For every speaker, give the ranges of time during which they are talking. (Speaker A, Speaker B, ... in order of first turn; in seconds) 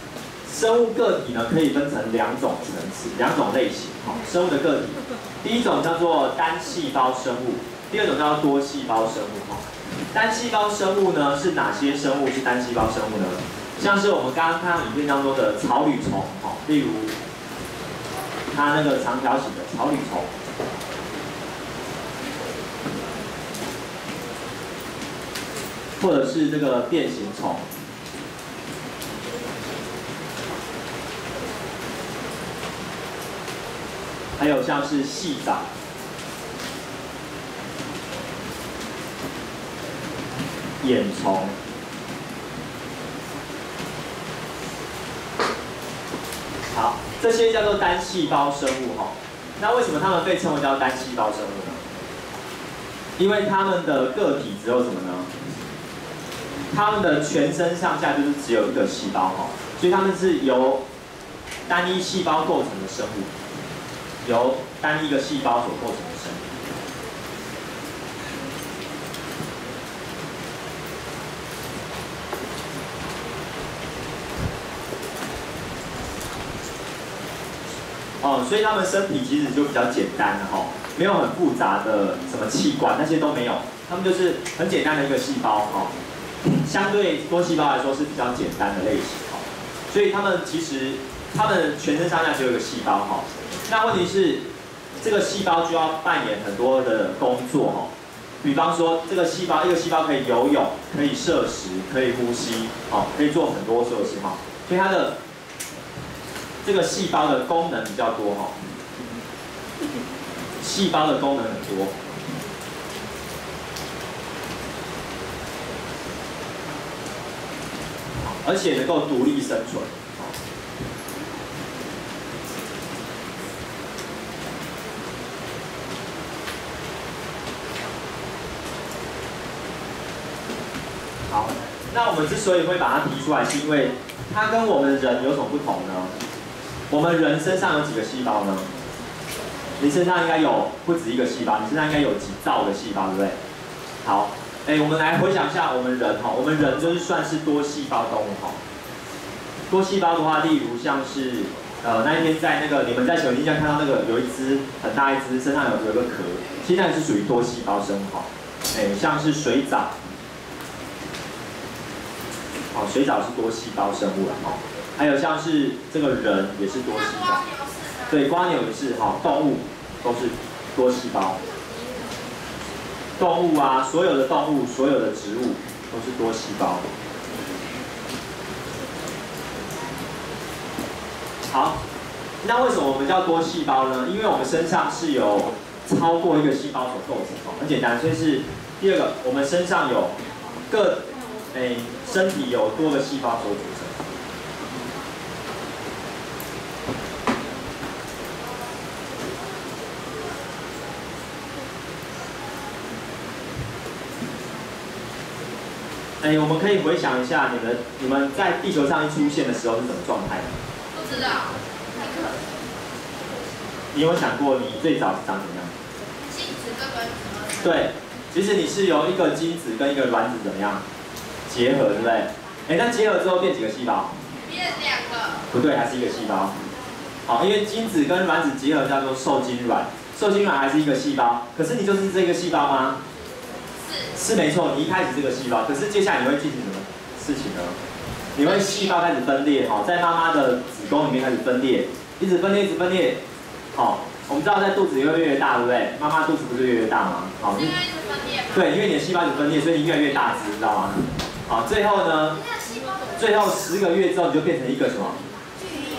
Speaker A: 0.5-17.1, 18.5-20.3, 26.0-27.7, 34.4-35.7, 40.8-41.5, 46.7-51.9, 53.2-55.3, 56.7-60.8, 61.7-63.3, 64.2-66.5, 78.2-85.9, 86.6-94.5, 95.0-97.9, 98.4-105.2, 106.6-108.6, 110.6-112.1, 118.2-120.4, 131.3-136.1, 136.9-138.7, 139.8-143.4, 144.1-148.6, 149.7-159.9, 162.7-167.4, 168.1-171.4, 173.2-176.9, 181.5-181.8, 182.4-190.2, 190.7-194.0, 206.2-210.6, 213.9-215.7, 217.6-220.8, 221.5-224.2, 225.5-226.7, 227.3-233.0, 234.1-237.8, 238.3-243.2, 243.8-247.8, 248.5-252.4, 253.2-255.2
Speaker B: 167.4-168.0, 210.9-211.6, 216.2-217.7, 224.5-225.4, 247.6-248.5, 252.6-252.9